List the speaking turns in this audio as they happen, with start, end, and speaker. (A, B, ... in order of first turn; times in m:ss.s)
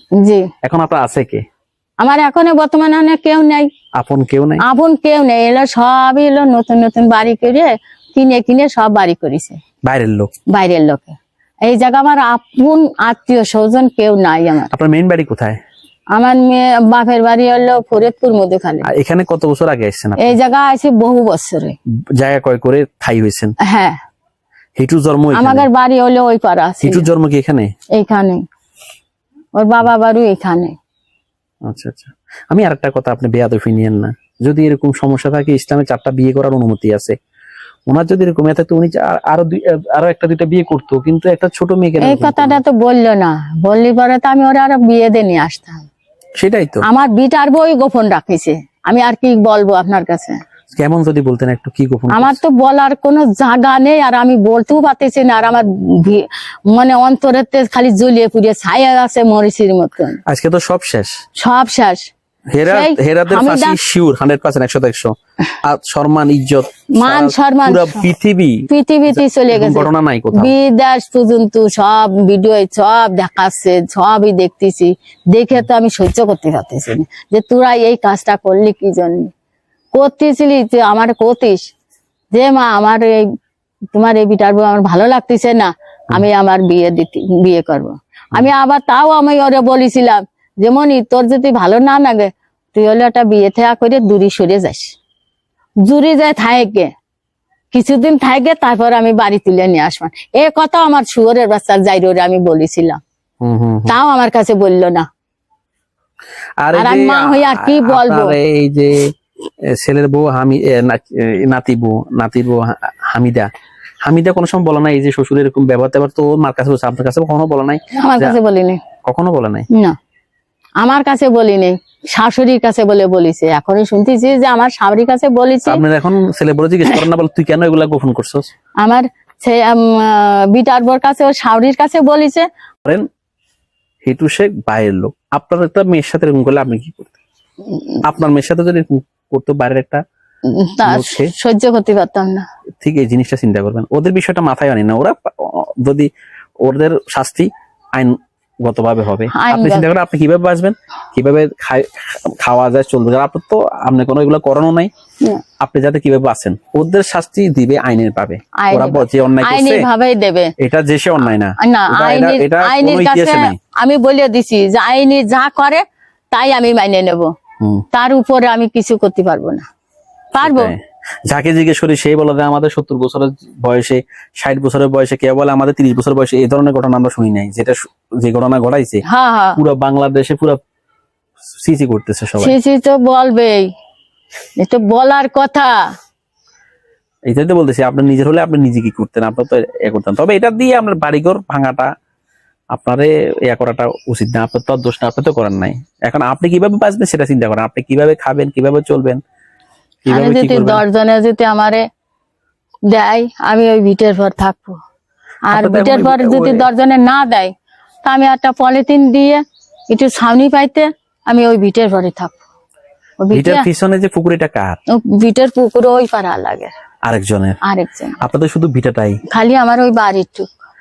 0:00.2-0:00.5 A
0:00.6-0:01.4 B
0:02.0-0:03.7 A
0:04.0-0:04.6 B
0:04.6-0:09.6 A
0:09.8-0:10.3 B
0:10.5-0:14.7 A
0:14.7-0:15.6 B
0:16.1-0:18.9 A
0:18.8-0:20.4 B
0:20.2-0:21.8 A
0:22.1-0:23.5 B
0:23.6-0:23.9 A
0:24.8-0:25.7 B
0:25.3-0:27.1 A
0:26.8-0:27.7 B
0:28.0-0:28.4 A
0:29.6-0:30.7 A
0:31.6-0:37.1 B
0:37.9-0:42.6 B
0:42.0-0:45.9 A
0:46.4-0:46.8 B
0:46.8-0:50.4 A
0:50.7-0:52.4 B
0:52.1-1:00.2 A
1:00.3-1:01.1 B
1:01.4-1:02.0 A
1:02.5-1:10.5 B
1:02.6-1:03.8 A
1:06.9-1:08.1 A
1:08.7-1:19.3 A
1:19.9-1:21.6 A
1:22.3-1:23.2 A
1:23.9-1:34.9 A
1:35.8-1:36.9 A
1:37.7-1:43.0 A
1:43.4-1:44.0 B
1:43.9-1:45.0 A
1:46.6-1:49.1 B
1:46.7-1:48.4 A
1:49.7-1:53.5 B
1:54.0-1:58.4 B
1:58.0-1:58.8 A
1:59.0-1:59.7 B
2:00.8-2:05.8 A
2:05.7-2:08.5 B
2:08.8-2:12.4 A
2:14.0-2:17.2 B
2:18.0-2:20.0 B
2:20.5-2:22.4 A
2:20.8-2:21.3 B
2:22.8-2:26.1 B
2:26.6-2:34.9 B
2:29.4-2:29.9 A
2:35.6-2:39.8 B
2:38.6-2:40.5 A
2:40.6-2:43.6 B
2:41.6-2:47.3 A
2:47.9-2:49.6 A
2:50.3-2:50.7 A
2:50.4-2:59.0 B
2:59.0-2:59.6 A
2:59.6-3:00.6 B
3:01.6-3:02.5 B
3:02.4-3:03.7 A
3:04.6-3:05.7 A
3:07.3-3:11.9 B
3:12.7-3:19.2 B
3:20.0-3:20.8 B
3:20.1-3:21.8 A
3:22.9-3:24.8 A
3:25.5-3:27.5 A
3:25.5-3:26.7 B
3:28.0-3:32.4 A
3:33.2-3:33.6 A
3:33.3-3:34.8 B
3:34.9-3:36.7 A
3:37.0-3:37.6 B
3:37.6-3:38.2 A
3:38.2-3:39.2 B
3:39.3-3:40.5 A